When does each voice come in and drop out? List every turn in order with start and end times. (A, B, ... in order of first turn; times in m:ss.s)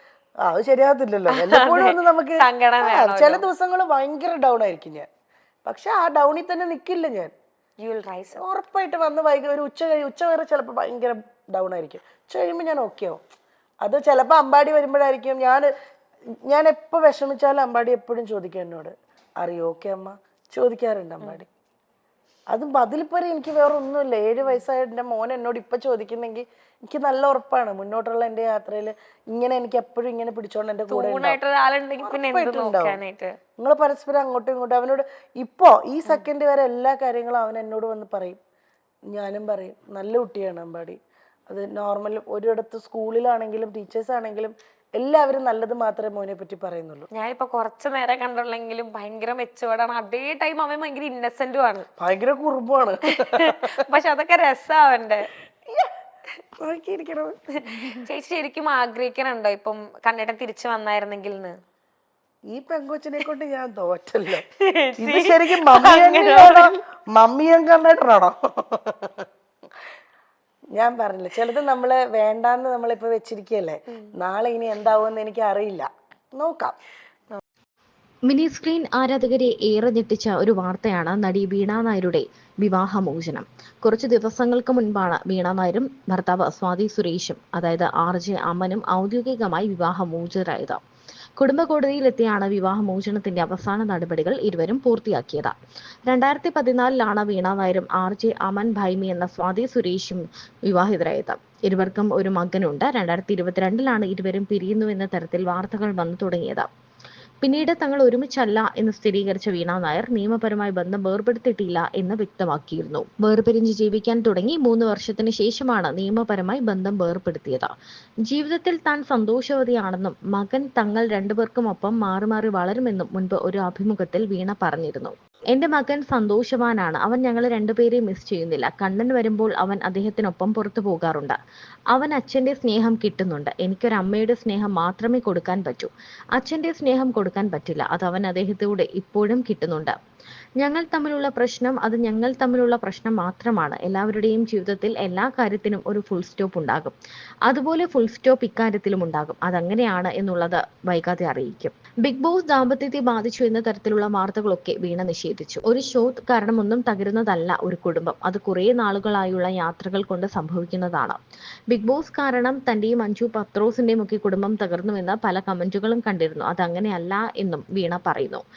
0:00.5-0:05.1 A
0:01.3-0:03.4 B
0:05.7-0:07.3 A
0:07.8-0:08.4 B
0:08.4-0:13.2 A
0:13.8-0:15.7 A
0:16.5-0:21.5 A
0:22.5-0:31.4 A
0:30.9-0:33.4 B
0:32.0-0:33.0 A
0:33.6-0:38.4 A
0:39.1-0:41.0 A
0:41.5-0:47.1 A
0:47.1-0:51.9 B
0:52.0-0:53.8 A
0:53.0-0:55.3 B
0:56.6-0:58.0 A
0:57.7-1:01.6 B
1:02.5-1:04.5 A
1:04.6-1:06.7 B
1:05.0-1:09.2 A
1:10.8-1:16.8 A
1:18.3-1:30.8 C
1:31.4-1:35.6 C
1:36.1-1:46.7 C
1:47.4-1:57.7 C
1:58.3-2:11.4 C
2:11.9-2:20.0 C
2:20.6-2:27.0 C
2:27.5-2:41.2 C
2:41.7-2:48.4 C